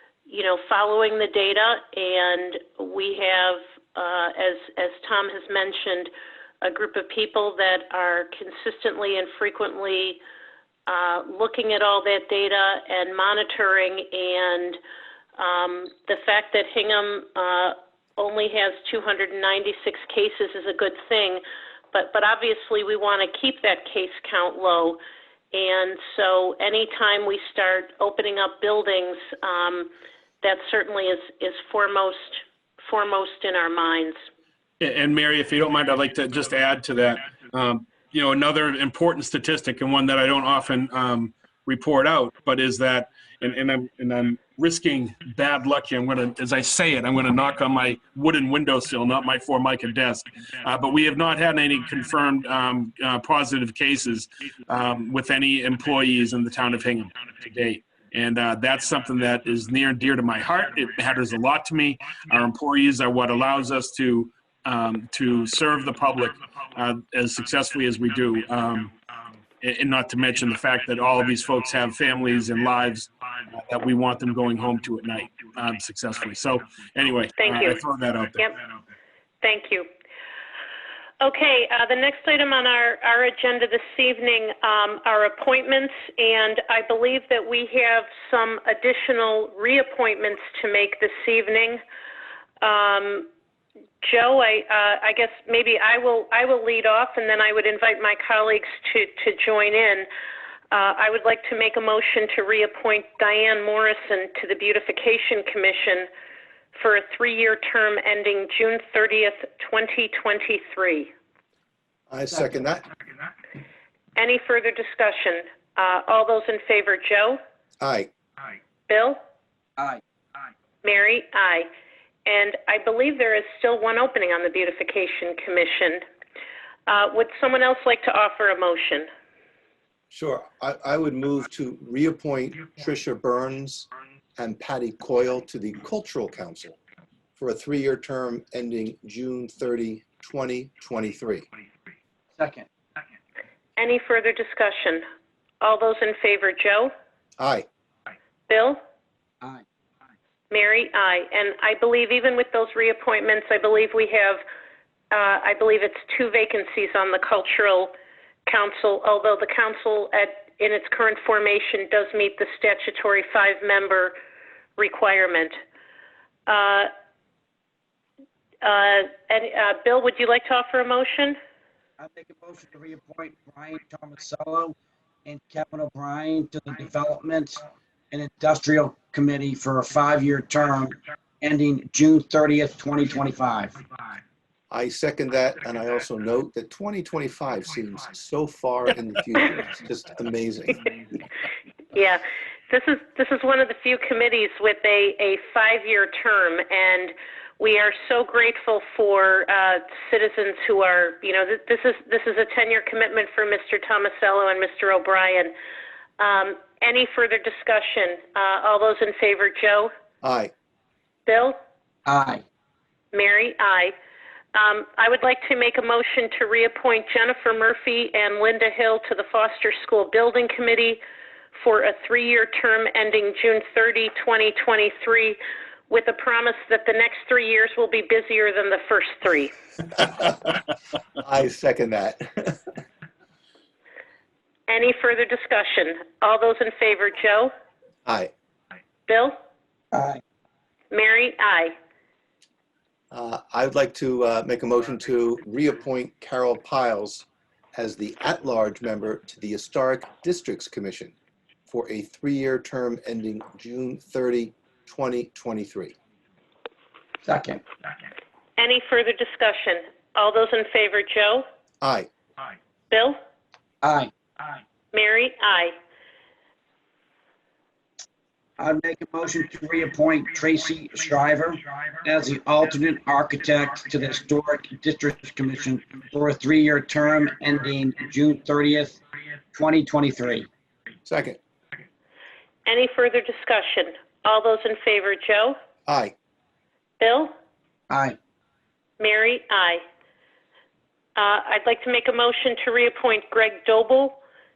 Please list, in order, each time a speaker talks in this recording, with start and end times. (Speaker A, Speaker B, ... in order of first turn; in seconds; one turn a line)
Speaker A: 0.3-6.1
Speaker A: 6.6-10.2
Speaker A: 10.9-14.8
Speaker A: 15.4-21.4
Speaker A: 21.9-25.0
Speaker A: 25.5-34.2
Speaker B: 34.8-68.9
Speaker B: 69.6-78.6
Speaker A: 77.4-77.8
Speaker A: 79.4-79.9
Speaker A: 81.2-91.8
Speaker A: 92.6-93.3
Speaker A: 94.0-100.1
Speaker A: 100.7-106.1
Speaker A: 106.7-111.1
Speaker C: 112.1-112.8
Speaker A: 114.2-117.4
Speaker C: 117.8-118.1
Speaker A: 118.9-119.2
Speaker A: 120.8-121.7
Speaker A: 122.3-126.0
Speaker A: 126.9-129.1
Speaker C: 130.1-136.8
Speaker C: 137.4-141.5
Speaker D: 142.3-142.7
Speaker A: 143.8-145.0
Speaker A: 145.6-146.9
Speaker C: 147.4-147.7
Speaker A: 148.5-148.8
Speaker A: 150.5-154.4
Speaker A: 155.1-157.9
Speaker A: 158.5-164.2
Speaker A: 164.8-165.6
Speaker A: 166.5-166.9
Speaker A: 168.6-171.4
Speaker D: 172.0-183.8
Speaker C: 184.7-190.9
Speaker A: 191.9-205.5
Speaker A: 206.2-209.9
Speaker C: 210.2-210.5
Speaker A: 211.3-211.6
Speaker D: 212.1-212.4
Speaker A: 213.1-213.9
Speaker A: 214.5-221.0
Speaker A: 221.6-225.4
Speaker A: 225.9-229.5
Speaker C: 230.2-230.6
Speaker C: 231.2-232.6
Speaker A: 234.7-237.5
Speaker C: 238.1-238.3
Speaker A: 239.1-239.4
Speaker D: 239.9-240.2
Speaker A: 240.9-241.8
Speaker C: 243.1-251.1
Speaker C: 251.7-255.9
Speaker D: 257.2-257.6
Speaker A: 258.6-261.4
Speaker C: 261.8-262.1
Speaker A: 262.9-263.2
Speaker D: 263.8-264.1
Speaker A: 264.9-265.8
Speaker D: 268.6-279.0
Speaker D: 279.5-280.5
Speaker C: 281.1-281.4
Speaker A: 282.7-285.6
Speaker C: 285.9-286.1
Speaker A: 287.0-287.3
Speaker D: 287.9-288.2
Speaker A: 289.0-289.8
Speaker A: 291.2-294.2